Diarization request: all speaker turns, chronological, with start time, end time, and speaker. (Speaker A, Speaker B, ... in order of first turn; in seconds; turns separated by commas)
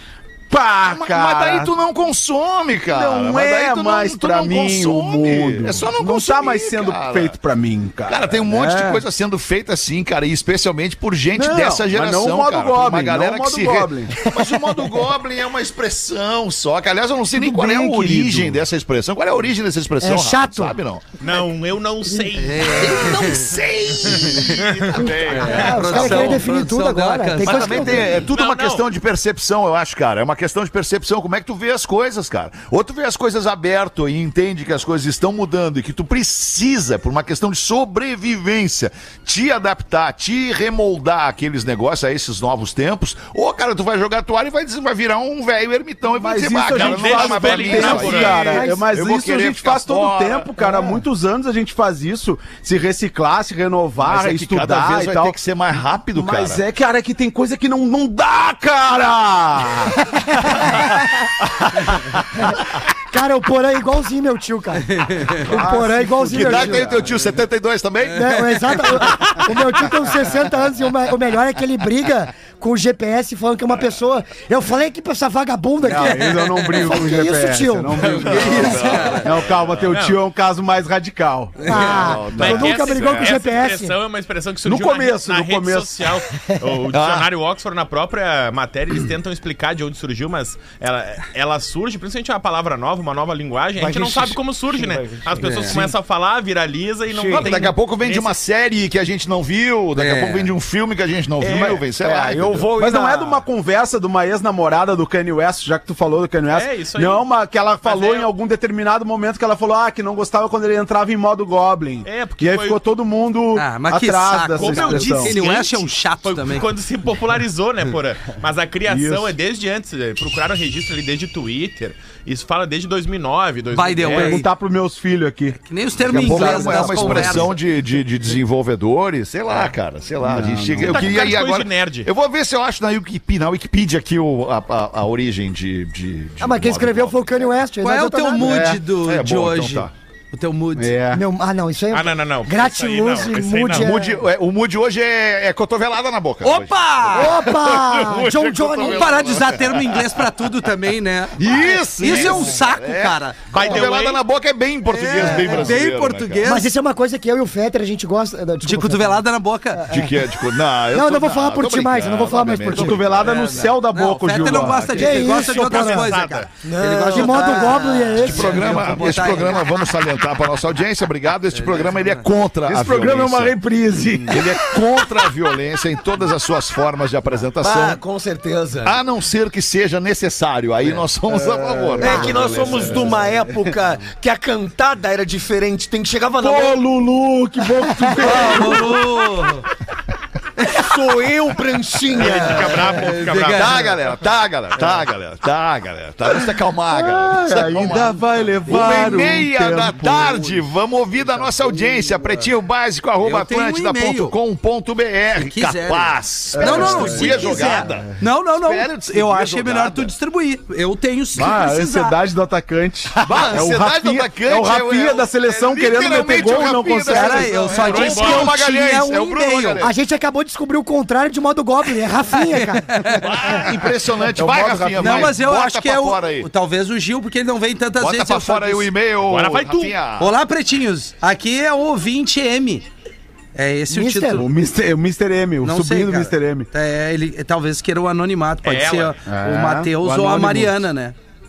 Speaker A: 0.5-1.7, Speaker B: 0.8-7.3, Speaker A: 2.9-9.0, Speaker B: 8.1-21.0, Speaker A: 11.3-14.1, Speaker C: 14.2-14.6, Speaker A: 17.4-18.6, Speaker C: 20.0-20.8, Speaker D: 21.2-23.3, Speaker E: 22.4-23.5, Speaker B: 22.8-26.5, Speaker D: 24.0-26.1, Speaker E: 24.2-24.6, Speaker C: 24.9-28.2, Speaker E: 25.3-28.1, Speaker B: 27.4-50.5, Speaker D: 28.2-28.9, Speaker A: 46.1-55.4, Speaker D: 46.7-48.6, Speaker C: 47.8-48.8, Speaker C: 50.6-50.9, Speaker B: 54.0-56.6, Speaker A: 56.1-60.0, Speaker C: 60.4-61.0, Speaker C: 62.4-64.9, Speaker E: 64.9-65.5, Speaker C: 65.4-66.9, Speaker A: 65.5-67.1, Speaker B: 66.2-69.1, Speaker C: 68.1-79.2, Speaker A: 75.8-81.7, Speaker B: 78.1-79.9, Speaker E: 78.2-79.3, Speaker D: 79.9-80.2, Speaker C: 81.7-84.0, Speaker B: 81.7-83.5, Speaker D: 82.3-98.3, Speaker A: 84.6-86.1, Speaker B: 86.9-87.3, Speaker F: 93.8-95.9, Speaker E: 95.4-95.9, Speaker F: 97.1-97.6, Speaker B: 97.3-102.7, Speaker E: 100.0-100.5, Speaker F: 101.4-103.4, Speaker A: 102.8-115.4, Speaker D: 106.5-107.3, Speaker D: 107.8-108.3, Speaker D: 112.0-112.8, Speaker E: 113.5-116.7, Speaker D: 114.5-124.4, Speaker A: 118.9-119.3, Speaker E: 123.7-124.5, Speaker A: 124.0-127.5, Speaker E: 125.6-127.5, Speaker B: 126.0-137.5, Speaker A: 130.2-131.2, Speaker D: 130.8-132.1, Speaker C: 136.4-138.7, Speaker E: 137.8-141.0, Speaker A: 138.4-138.8, Speaker B: 138.9-139.9, Speaker A: 140.7-141.2, Speaker C: 141.1-144.2, Speaker D: 141.9-143.9, Speaker B: 143.7-150.2, Speaker E: 146.4-147.5, Speaker C: 147.1-149.4, Speaker E: 148.8-153.5, Speaker B: 151.3-156.5, Speaker C: 152.0-152.6, Speaker D: 153.5-154.2, Speaker E: 154.9-156.7, Speaker C: 155.2-155.7, Speaker C: 156.4-160.3, Speaker E: 158.6-159.9, Speaker B: 159.9-163.3, Speaker C: 160.9-163.1, Speaker A: 162.7-165.4, Speaker E: 163.2-169.7, Speaker C: 164.9-166.1, Speaker D: 165.2-166.5, Speaker F: 166.6-167.8, Speaker C: 167.0-169.0, Speaker B: 168.2-173.6, Speaker E: 171.5-172.2, Speaker A: 172.6-174.6, Speaker B: 174.1-178.0, Speaker F: 177.6-179.0, Speaker B: 178.8-183.1, Speaker A: 181.3-183.4, Speaker F: 182.0-186.8, Speaker A: 186.4-189.1, Speaker E: 188.2-189.7, Speaker E: 190.6-190.9, Speaker F: 190.7-192.9, Speaker D: 192.2-193.8, Speaker E: 192.2-193.9, Speaker B: 193.5-210.1, Speaker A: 197.0-200.6, Speaker E: 197.8-199.4, Speaker A: 201.6-202.0, Speaker E: 203.2-204.3, Speaker E: 205.3-212.2, Speaker A: 206.5-208.1, Speaker A: 211.3-217.8, Speaker B: 213.2-219.9, Speaker E: 217.0-219.9, Speaker D: 217.7-218.5, Speaker C: 219.8-223.7, Speaker E: 222.3-223.3, Speaker B: 223.1-226.5, Speaker A: 224.3-225.4, Speaker E: 224.9-228.9, Speaker B: 228.0-230.3, Speaker D: 229.2-229.9, Speaker E: 230.2-232.8, Speaker E: 233.5-234.4, Speaker C: 233.9-234.5, Speaker A: 234.3-236.7, Speaker E: 235.6-241.1, Speaker D: 238.6-239.2, Speaker A: 239.2-240.9